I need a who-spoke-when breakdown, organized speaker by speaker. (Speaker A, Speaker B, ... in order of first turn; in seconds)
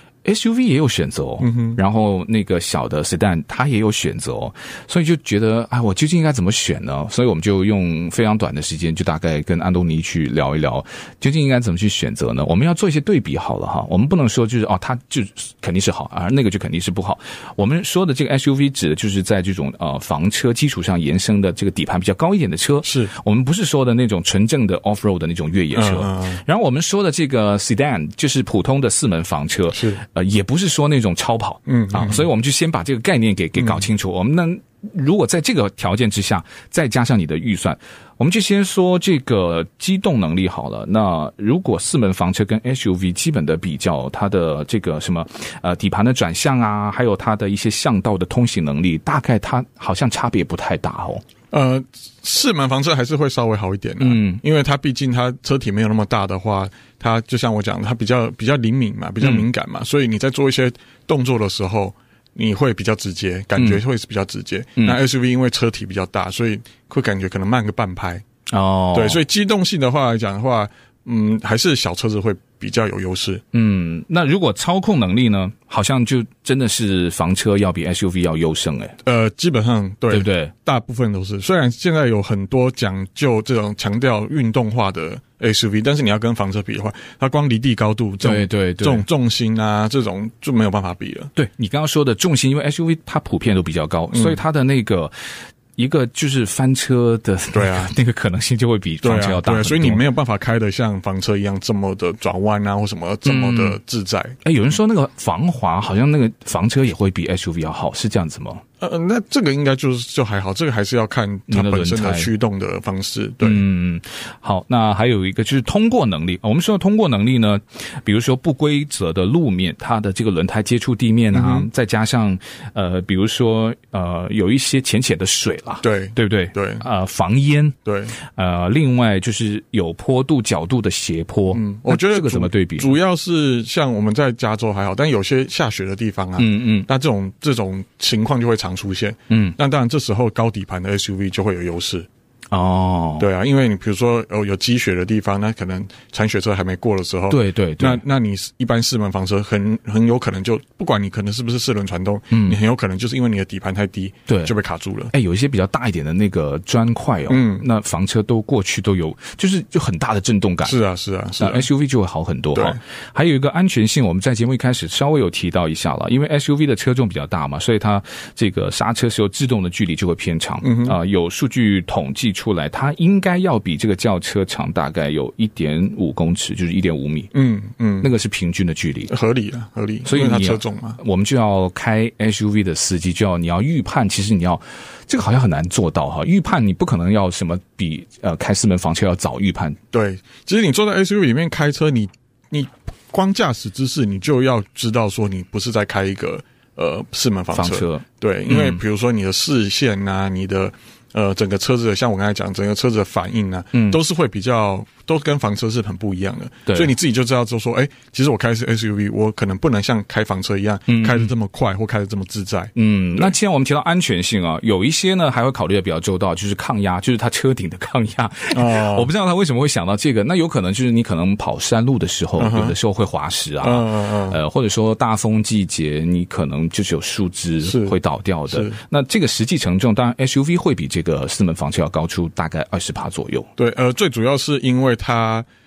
Speaker A: 0.2-51.2, 54.0-54.4, 59.2-59.5, 63.6-63.8, 68.5-69.2, 73.5-79.0, 80.1-80.5, 88.2-89.1, 91.4-100.0, 103.2-103.8, 104.4-108.6, 111.5-112.3, 113.4-133.0, 136.4-136.9, 139.3-139.6, 142.5-143.3, 147.3-148.0, 152.3-152.6, 154.3-154.5, 155.1-160.8, 161.4-177.3, 178.0-179.1, 180.1-189.8, 197.5-198.8, 203.7-204.0, 206.7-206.9, 210.9-211.3, 212.8-233.5
Speaker B: 1.4-1.8, 22.8-23.1, 25.7-26.4, 29.7-30.0, 31.7-32.3, 33.6-33.9, 51.5-68.2, 68.9-73.4, 79.0-91.3, 94.1-94.4, 97.5-97.9, 99.0-104.4, 108.8-113.6, 121.3-121.7, 125.8-126.8, 127.8-128.2, 131.5-142.1, 143.2-155.1, 157.3-157.6, 160.6-161.7, 162.5-162.8, 170.6-171.0, 177.3-178.1, 179.1-181.0, 189.9-213.3, 218.5-219.1, 222.4-222.8, 223.6-224.4, 227.6-228.0, 228.5-228.8, 233.6-235.5